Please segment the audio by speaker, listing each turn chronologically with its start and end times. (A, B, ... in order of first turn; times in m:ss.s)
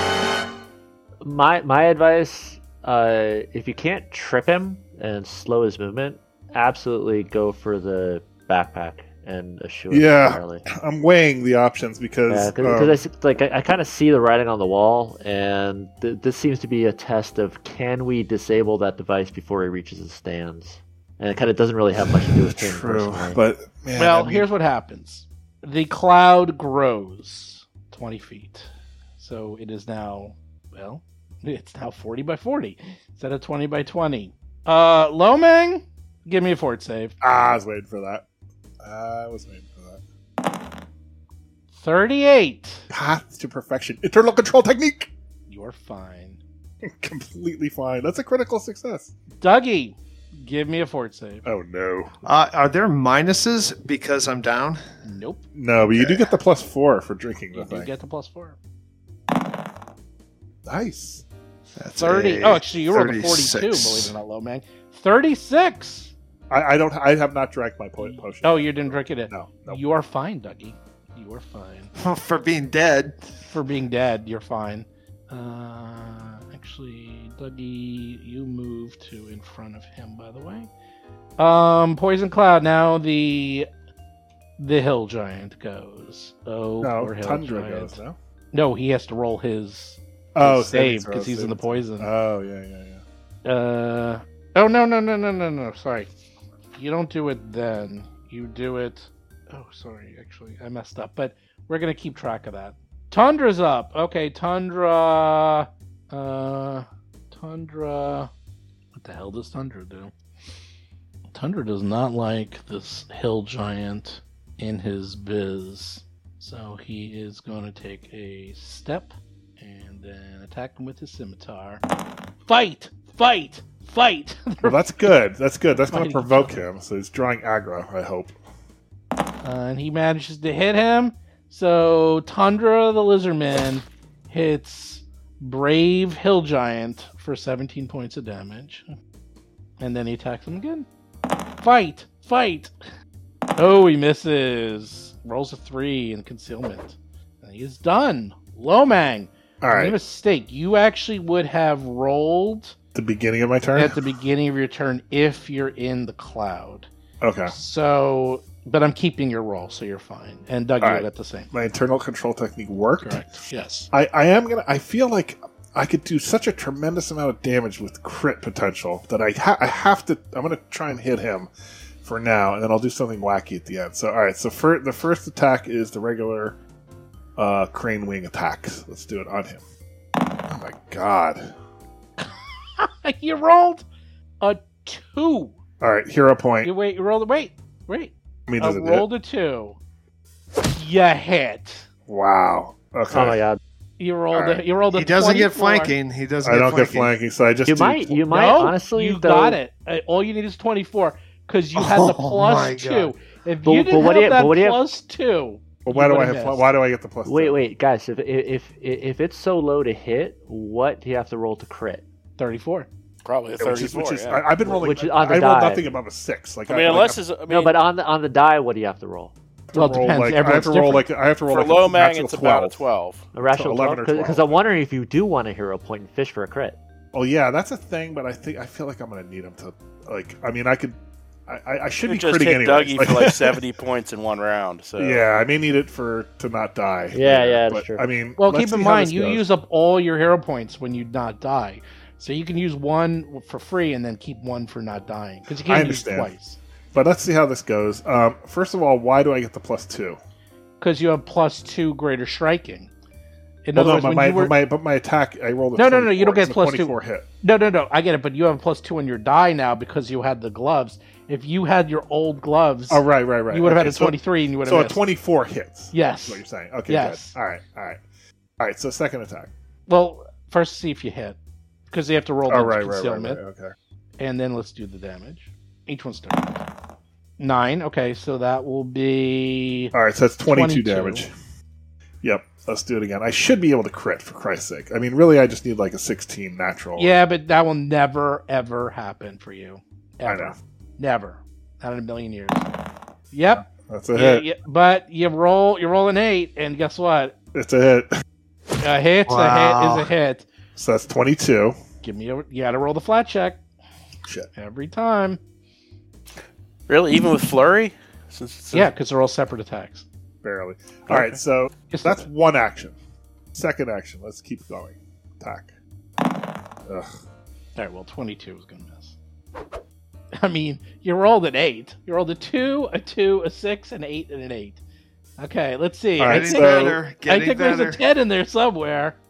0:01.2-0:10.6 A
0:09.9-0:13.0 B
0:12.3-0:23.4 A
0:22.1-0:24.5 B
0:24.0-0:37.1 C
0:37.2-0:38.2 B
0:38.8-0:40.0 B
0:41.7-0:42.9 C
0:42.9-0:45.1 B
0:45.5-0:46.4 C
0:46.8-0:49.1 B
0:49.4-0:51.4 C
0:51.4-0:52.1 B
0:52.2-0:54.8 D
0:55.0-0:55.4 C
0:55.5-0:57.9 B
0:56.0-0:56.3 D
0:57.5-0:58.6 C
1:00.6-1:01.2 B
1:01.8-1:04.1 D
1:02.0-1:06.1 C
1:06.5-1:09.8 B
1:08.0-1:11.9 C
1:12.0-1:13.3 D
1:13.4-1:20.7 C
1:21.4-1:23.7 C
1:24.6-1:28.0 C
1:26.8-1:28.2 B
1:28.5-1:32.1 C
1:30.3-1:33.0 B
1:33.4-1:36.1 C
1:36.8-1:48.3 C
1:48.9-1:50.1 C
1:51.3-2:01.8 C
2:02.5-2:05.1 C
2:04.6-2:08.3 B
2:05.7-2:06.5 C
2:09.4-2:18.9 C
2:19.8-2:20.8 C
2:21.6-2:22.7 C
2:23.6-2:32.8 C
2:29.6-2:30.0 B
2:32.9-2:34.0 B
2:33.8-2:36.9 C
2:37.2-2:37.5 B
2:37.5-2:41.5 C
2:40.8-2:43.3 B
2:43.0-2:43.9 C
2:43.9-2:51.5 B
2:52.0-2:56.6 B
2:57.4-2:59.6 B
3:00.5-3:01.5 B
3:02.2-3:03.8 C
3:04.4-3:05.6 C
3:05.8-3:06.7 B
3:06.6-3:09.8 C
3:08.5-3:09.0 B
3:10.7-3:11.9 C
3:12.1-3:13.4 B
3:13.1-3:13.6 A
3:14.0-3:15.9 C
3:14.9-3:17.1 D
3:16.4-3:18.2 B
3:17.7-3:19.6 A
3:18.3-3:26.6 C
3:21.8-3:23.2 D
3:23.6-3:24.8 A
3:25.8-3:27.6 B
3:27.2-3:32.0 A
3:32.4-3:32.9 C
3:33.2-3:34.5 E
3:33.6-3:37.2 B
3:34.7-3:35.9 A
3:36.7-3:37.7 E
3:37.5-3:39.3 A
3:39.7-3:42.8 B
3:39.7-3:41.1 C
3:41.5-3:43.2 E
3:43.3-3:46.8 A
3:43.5-3:44.6 B
3:47.1-3:53.6 B
3:52.0-3:55.2 E
3:55.0-3:59.4 B
3:57.1-3:58.0 A
3:58.4-4:06.6 C
4:05.6-4:06.3 B
4:06.9-4:10.2 B
4:10.8-4:12.9 C
4:13.6-4:14.5 C
4:13.7-4:17.3 B
4:15.8-4:25.0 C
4:22.9-4:28.0 B
4:25.9-4:27.4 C
4:28.6-4:29.5 B
4:29.9-4:31.4 C
4:31.9-4:33.4 C
4:32.5-4:33.7 B
4:34.2-4:36.6 C
4:37.4-4:39.9 C
4:39.9-4:41.3 B
4:40.4-4:41.2 C
4:42.2-4:47.1 B
4:47.0-4:52.6 C
4:50.2-4:50.6 B
4:53.3-4:57.3 C
4:53.6-4:54.5 B
4:57.5-4:58.1 B
4:58.8-5:00.4 C
4:59.3-5:00.1 D
5:00.8-5:01.8 B
5:02.0-5:03.6 C
5:04.5-5:05.4 C
5:06.9-5:08.9 E
5:08.7-5:10.0 C
5:10.4-5:12.9 B
5:11.9-5:12.2 C
5:13.5-5:15.7 B
5:16.8-5:17.1 B
5:17.8-5:19.2 C
5:20.4-5:24.8 C
5:25.4-5:29.2 C
5:26.2-5:27.0 B
5:26.2-5:28.0 D